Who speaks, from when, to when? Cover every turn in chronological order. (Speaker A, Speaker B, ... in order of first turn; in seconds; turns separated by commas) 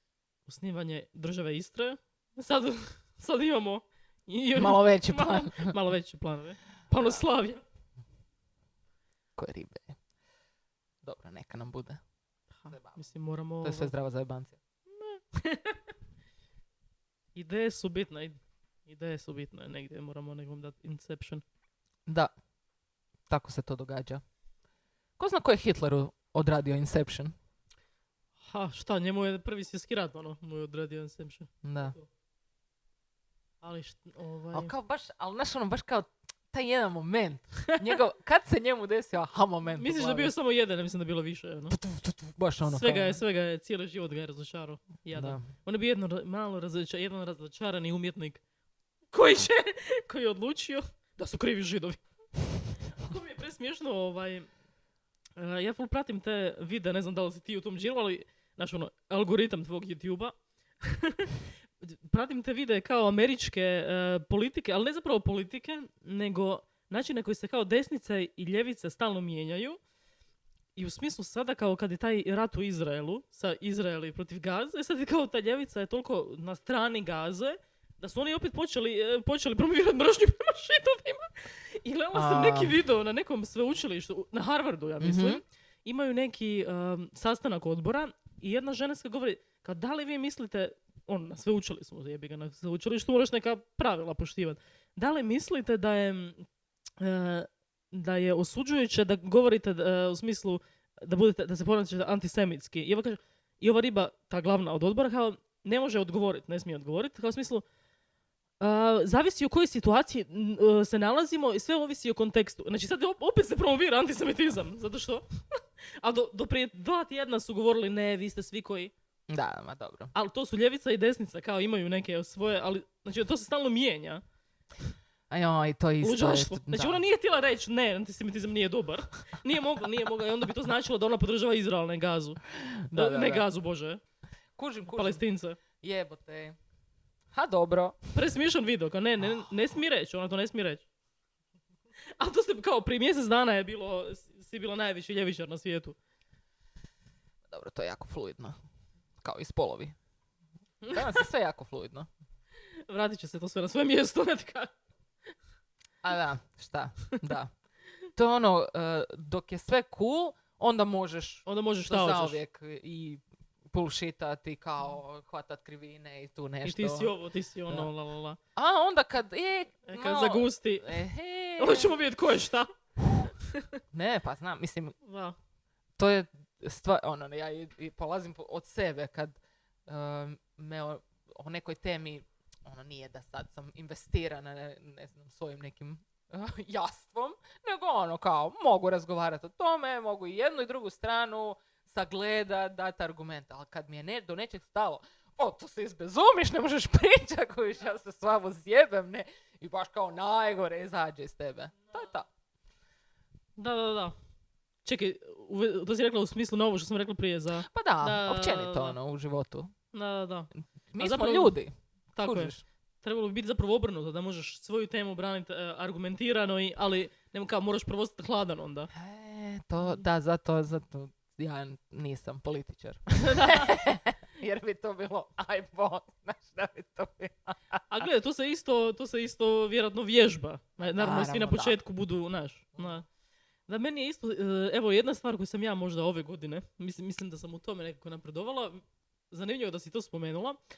Speaker A: 0.5-7.6, Speaker B: 4.5-5.8, Speaker B: 9.4-10.0, Speaker B: 11.0-12.0, Speaker A: 12.6-13.9, Speaker B: 12.7-13.0, Speaker B: 13.6-14.6, Speaker A: 14.9-15.9, Speaker A: 17.4-21.4, Speaker B: 22.1-22.3, Speaker B: 23.3-24.2, Speaker B: 25.2-27.3, Speaker A: 28.4-32.0, Speaker B: 31.6-32.0, Speaker A: 33.6-34.7, Speaker B: 34.5-40.3, Speaker A: 39.8-41.8, Speaker B: 41.7-43.2, Speaker A: 42.7-48.4, Speaker B: 45.1-45.5, Speaker A: 49.1-52.0, Speaker A: 53.0-54.5, Speaker A: 55.4-69.8, Speaker A: 70.8-96.5, Speaker B: 82.1-82.8, Speaker B: 85.0-85.4, Speaker A: 97.0-107.7, Speaker A: 108.6-118.9, Speaker B: 119.3-120.1, Speaker A: 120.2-124.2, Speaker B: 125.3-127.0, Speaker A: 126.0-132.4, Speaker B: 132.7-133.5, Speaker A: 132.9-134.0, Speaker B: 134.6-135.2, Speaker A: 134.9-135.6, Speaker B: 135.8-136.6, Speaker B: 137.3-138.0, Speaker A: 138.2-140.8, Speaker A: 142.2-146.0, Speaker B: 147.5-148.6, Speaker B: 149.2-149.9, Speaker A: 150.9-151.2, Speaker B: 150.9-152.1, Speaker A: 152.9-154.7, Speaker B: 156.0-157.5, Speaker B: 158.2-167.1, Speaker A: 161.5-162.4, Speaker A: 166.6-168.4, Speaker B: 168.6-171.9, Speaker A: 169.9-171.0, Speaker A: 171.6-173.7, Speaker B: 173.9-175.0, Speaker A: 175.0-175.4, Speaker B: 176.0-202.3, Speaker A: 203.6-204.2, Speaker A: 204.8-209.0, Speaker B: 207.7-209.7, Speaker A: 209.9-210.5, Speaker B: 210.9-212.6, Speaker A: 211.0-211.6, Speaker A: 212.1-218.9, Speaker B: 218.9-227.8, Speaker A: 223.2-223.8, Speaker A: 227.9-233.1, Speaker B: 230.8-231.8, Speaker A: 233.7-240.6